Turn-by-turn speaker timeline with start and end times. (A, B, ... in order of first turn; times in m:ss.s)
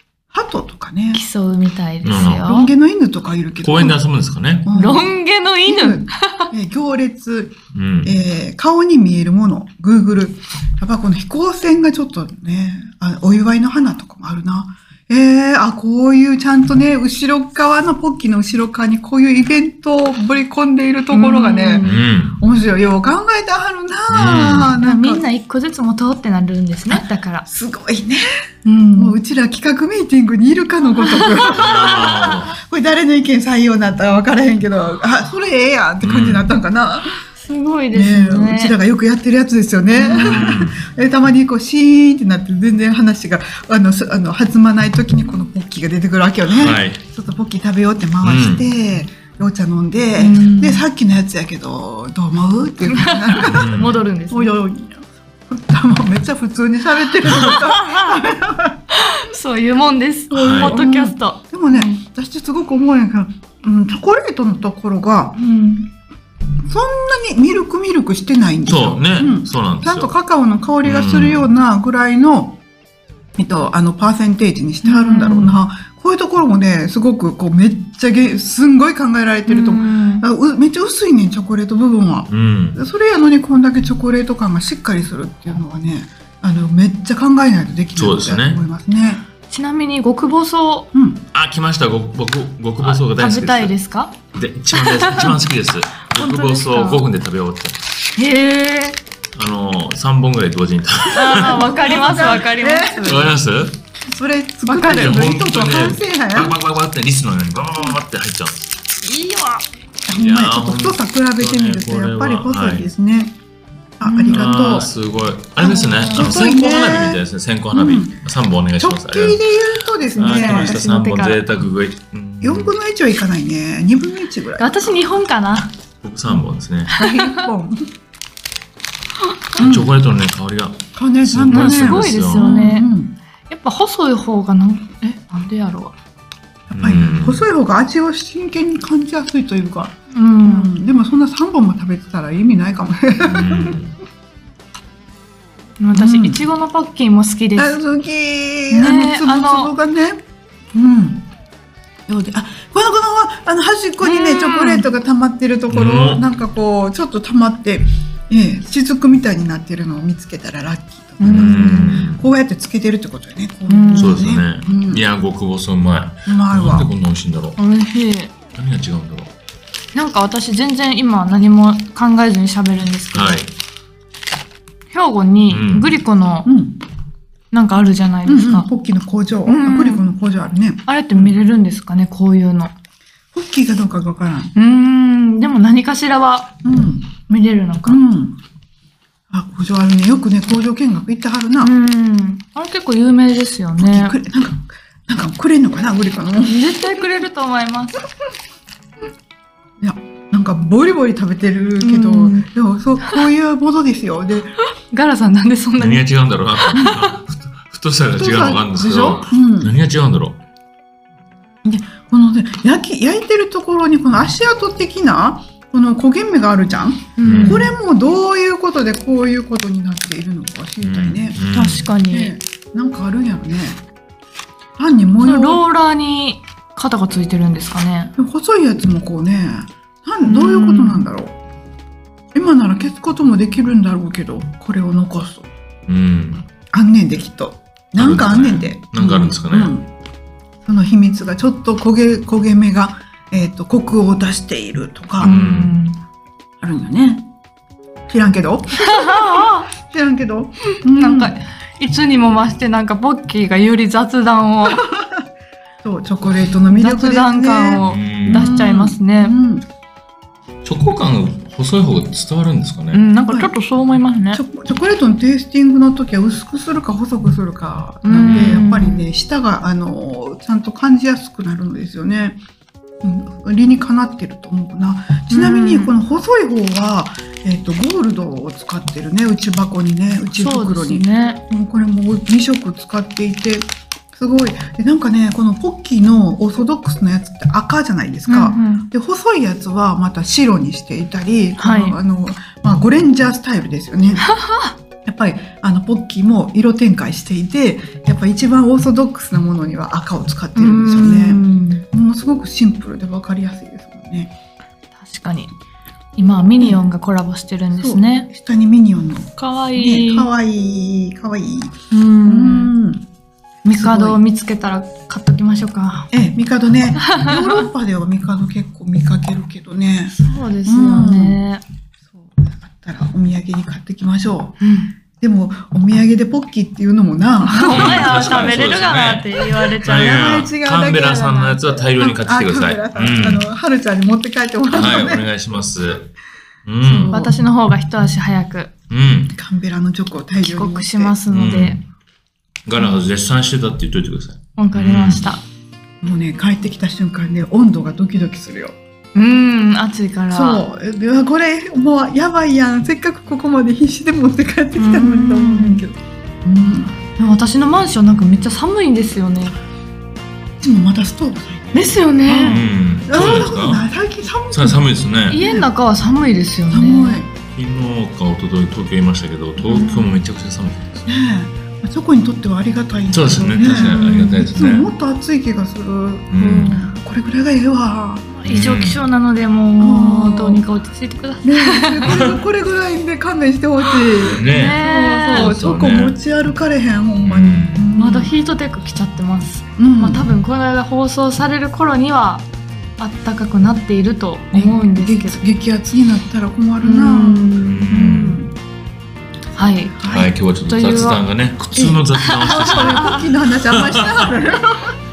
0:00.3-0:01.2 A
0:01.1-0:02.7 B
0:02.0-0:02.5 C
0:02.4-0:04.0 A
0:03.6-0:04.7 C
0:04.6-0:05.1 A
0:04.7-0:06.5 B
0:05.7-0:25.3 A
0:07.7-0:08.2 C
0:21.1-0:21.9 B
0:21.8-0:22.4 C
0:24.1-0:24.7 C
0:24.8-0:27.4 B
0:26.9-0:28.2 A
0:28.6-0:29.2 B
0:29.0-0:37.1 A
0:31.0-0:31.5 B
0:31.5-0:32.6 C
0:36.0-0:36.5 C
0:37.3-0:38.8 B
0:37.9-0:58.8 A
0:40.0-0:40.5 B
0:40.0-0:40.8 C
0:46.5-0:47.0 C
0:48.2-0:48.6 C
0:50.2-0:50.8 B
0:52.9-0:54.6 B
0:53.5-0:53.9 C
0:57.3-0:58.1 B
0:58.9-1:02.0 B
1:00.3-1:05.3 A
1:00.4-1:00.8 C
1:05.4-1:05.9 B
1:06.7-1:12.6 A
1:08.7-1:10.2 C
1:10.8-1:11.5 C
1:13.4-1:29.2 A
1:14.8-1:15.6 B
1:19.5-1:20.3 B
1:22.3-1:22.8 C
1:28.0-1:28.6 C
1:29.5-1:30.9 B
1:30.9-1:31.2 A
1:31.3-1:33.7 C
1:32.8-1:34.2 B
1:34.4-1:37.8 C
1:34.7-1:35.4 B
1:36.1-1:37.0 B
1:38.2-1:39.0 B
1:39.4-1:42.3 C
1:41.1-1:43.3 A
1:41.1-1:43.3 B
1:43.0-1:43.8 C
1:44.0-1:46.6 A
1:44.7-1:45.2 B
1:44.7-1:48.7 C
1:49.0-1:49.6 B
1:50.1-1:53.3 A
1:50.2-1:52.9 C
1:54.0-1:54.9 A
1:54.0-1:54.5 B
1:54.3-1:59.4 C
1:55.6-1:58.2 A
1:56.1-1:56.4 B
1:58.8-2:00.8 A
2:00.1-2:02.7 C
2:00.2-2:01.4 B
2:02.4-2:05.1 A
2:04.6-2:05.7 B
2:06.0-2:06.9 C
2:06.9-2:07.5 B
2:07.0-2:07.8 A
2:09.6-2:09.9 A
2:09.6-2:12.6 C
2:11.0-2:13.2 A
2:11.5-2:12.9 B
2:13.5-2:15.9 B
2:16.7-2:19.9 A
2:16.7-2:17.4 C
2:20.1-2:20.8 B
2:20.4-2:23.8 A
2:23.2-2:23.9 C
2:25.8-2:27.8 B
2:25.9-2:26.4 A
2:27.6-2:30.2 A
2:28.7-2:29.7 B
2:30.7-2:31.3 A
2:32.1-2:45.0 A
2:34.0-2:34.9 B
2:35.7-2:36.2 C
2:41.2-2:42.0 B
2:41.2-2:42.2 C
2:43.7-2:44.2 B
2:44.0-2:47.6 C
2:46.3-2:46.9 A
2:47.6-2:48.3 B
2:48.6-2:49.3 C
2:49.9-2:53.4 B
2:53.1-2:53.5 C
2:54.9-2:56.5 B
2:55.5-2:56.0 C
2:56.4-2:56.8 A
2:57.5-2:58.7 B
2:58.3-3:01.4 A
2:59.5-3:00.0 B
3:00.9-3:02.7 B
3:03.3-3:04.5 A
3:04.6-3:06.5 B
3:06.6-3:07.1 A
3:07.2-3:08.0 B
3:07.8-3:08.4 A
3:09.3-3:11.7 A
3:11.6-3:14.2 B
3:13.8-3:17.1 A
3:16.5-3:18.0 B
3:19.8-3:24.5 A
3:21.8-3:22.5 B
3:24.9-3:26.0 B
3:25.8-3:30.4 C
3:26.7-3:27.1 B
3:28.1-3:29.7 A
3:31.6-3:43.8 A
3:37.2-3:37.7 B
3:37.2-3:37.7 C
3:40.8-3:41.9 C
3:41.6-3:42.3 B
3:44.8-3:45.6 A
3:45.2-3:48.1 B
3:48.2-3:51.4 A
3:50.2-3:51.1 B
3:52.3-3:55.5 A
3:55.9-3:56.5 C
3:56.7-3:59.9 A
3:58.0-3:59.7 C
4:00.7-4:05.3 A
4:05.2-4:05.7 C
4:05.2-4:06.0 B
4:06.6-4:07.2 A
4:08.1-4:11.3 A
4:08.8-4:09.7 B
4:10.9-4:14.8 B
4:14.6-4:15.2 A
4:15.8-4:19.6 A
4:16.7-4:19.4 B
4:17.8-4:18.5 C
4:20.6-4:23.0 C
4:22.9-4:24.4 B
4:24.3-4:32.4 A
4:28.0-4:29.0 B
4:28.2-4:28.7 C
4:33.0-4:54.2 A
4:35.3-4:35.9 B
4:40.3-4:41.4 B
4:48.3-4:48.9 B
4:51.6-4:52.0 B
4:54.3-4:54.7 B
4:55.0-5:04.3 A
5:00.6-5:01.8 B
5:05.0-5:05.5 B
5:06.2-5:08.3 B
5:06.6-5:06.9 A
5:07.8-5:13.1 A
5:09.4-5:10.3 B
5:11.9-5:12.7 B
5:13.6-5:14.2 A
5:13.7-5:16.1 B
5:16.1-5:21.4 A
5:17.2-5:17.6 B
5:20.1-5:21.6 B
5:22.1-5:24.6 A
5:24.6-5:24.9 B
5:25.2-5:28.6 A
5:27.4-5:30.2 B
5:27.7-5:33.5 C
5:30.0-5:35.3 A
5:34.7-5:36.1 C
5:36.7-5:37.3 C
5:36.8-5:37.4 A
5:37.1-5:38.7 B
5:38.9-5:39.4 C
5:39.3-5:41.2 A
5:40.4-5:41.8 B
5:41.3-5:41.8 C
5:42.7-5:45.3 C
5:44.6-5:45.4 B
5:46.0-5:48.8 A
5:49.2-5:50.6 B
5:50.3-5:57.0 A
5:54.8-5:55.8 B
5:57.2-5:59.6 B
6:00.6-6:05.7 A
6:01.7-6:02.6 B
6:02.4-6:03.9 C
6:04.5-6:05.4 C
6:05.3-6:07.2 B
6:06.7-6:07.3 A
6:07.5-6:11.1 C
6:09.6-6:10.1 A
6:11.1-6:18.3 A
6:13.1-6:14.9 C
6:13.6-6:14.4 B
6:16.3-6:16.8 C
6:16.4-6:17.0 B
6:18.3-6:22.2 B
6:18.4-6:19.0 C
6:19.8-6:20.6 A
6:21.4-6:28.3 A
6:22.1-6:22.3 C
6:24.2-6:24.8 C
6:24.5-6:25.5 B
6:25.3-6:26.2 C
6:27.2-6:27.8 C
6:27.9-6:32.4 B
6:29.8-6:30.3 A
6:33.0-6:35.4 B
6:34.5-6:38.5 A
6:36.8-6:37.9 B
6:37.6-6:38.4 C
6:39.6-6:40.0 B
6:40.0-6:40.4 A
6:40.0-6:44.3 C
6:40.6-6:41.2 B
6:41.8-6:44.9 A
6:42.2-6:43.2 B